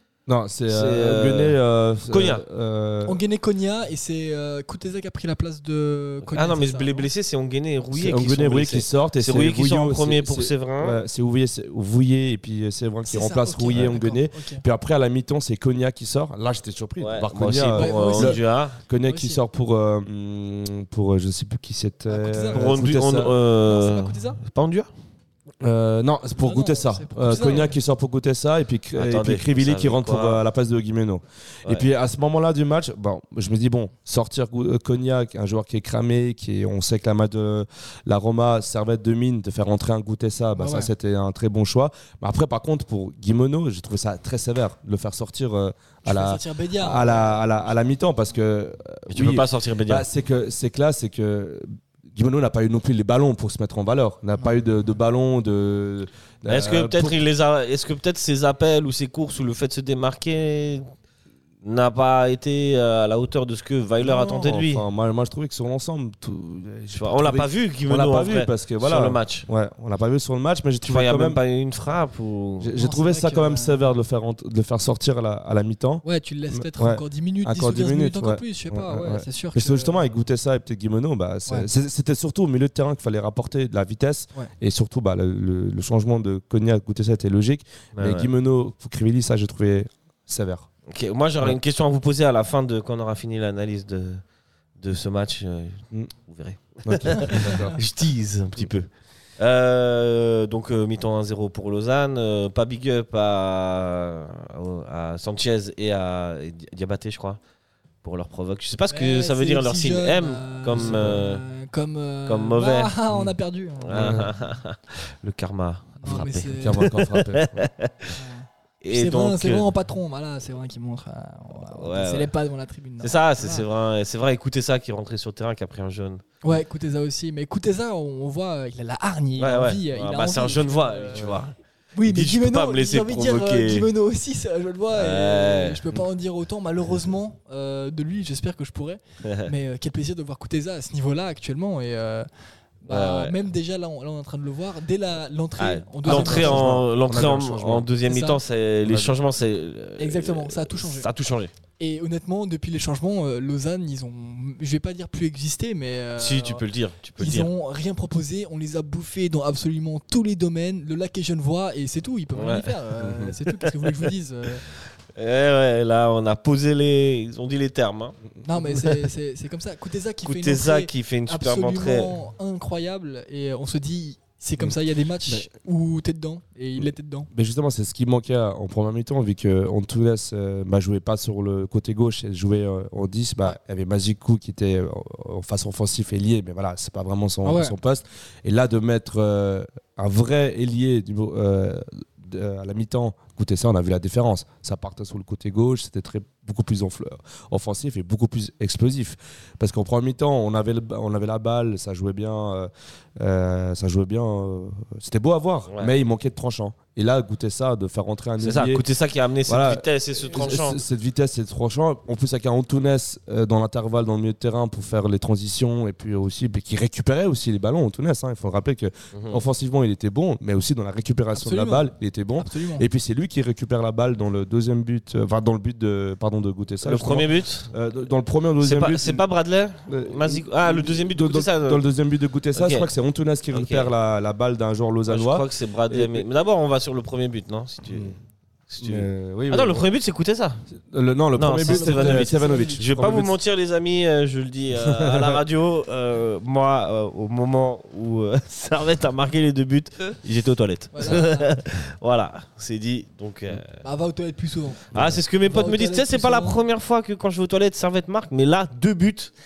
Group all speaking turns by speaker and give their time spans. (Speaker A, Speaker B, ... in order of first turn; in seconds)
Speaker A: 0.3-3.2, 7.9-23.4, 25.6-57.2, 64.0-71.4, 72.6-90.7, 96.8-97.8, 110.7-111.2, 113.9-114.3, 116.1-117.7, 131.2-131.4, 146.0-147.9, 148.8-149.2, 163.0-163.3, 176.8-208.8, 209.5-229.2, 229.9-236.3, 237.9-238.2, 238.8-239.9, 240.8-243.4, 244.7-245.4, 254.9-255.2
Speaker B: 0.7-2.5, 6.2-11.0, 17.0-18.8, 22.5-24.9, 28.9-30.4, 49.1-50.1, 56.5-60.8, 61.6-64.8, 66.9-69.5, 70.8-72.7, 88.0-88.3, 90.9-94.2, 94.8-107.4, 108.0-111.4, 112.3-112.9, 113.8-118.2, 118.8-119.7, 121.7-122.3, 123.0-126.2, 129.4-133.9, 134.9-135.8, 139.2-139.5, 142.9-143.4, 145.6-151.5, 156.2-157.5, 162.3-162.8, 163.7-164.1, 165.2-168.2, 168.7-169.1, 170.2-172.1, 205.7-205.9, 208.4-210.8, 219.1-219.4, 226.8-227.7, 228.6-231.9, 232.6-232.9, 233.5-233.9, 235.1-238.2, 238.7-240.6, 241.3-253.7, 254.9-259.3
Speaker C: 3.0-7.1, 13.1-14.6, 17.8-18.4, 19.0-19.4, 22.1-22.8, 23.6-24.4, 26.4-27.7, 40.6-40.9, 46.0-47.6, 72.8-73.9, 76.0-80.0, 97.2-97.8, 108.9-114.3, 116.0-116.9, 118.2-123.7, 126.4-131.4, 131.9-142.3, 142.8-146.8, 148.1-148.4, 150.0-151.1, 151.8-156.6, 157.2-164.6, 168.4-177.3, 187.4-187.8, 221.3-222.9, 241.7-242.8, 250.9-251.5, 253.8-254.9, 255.4-256.6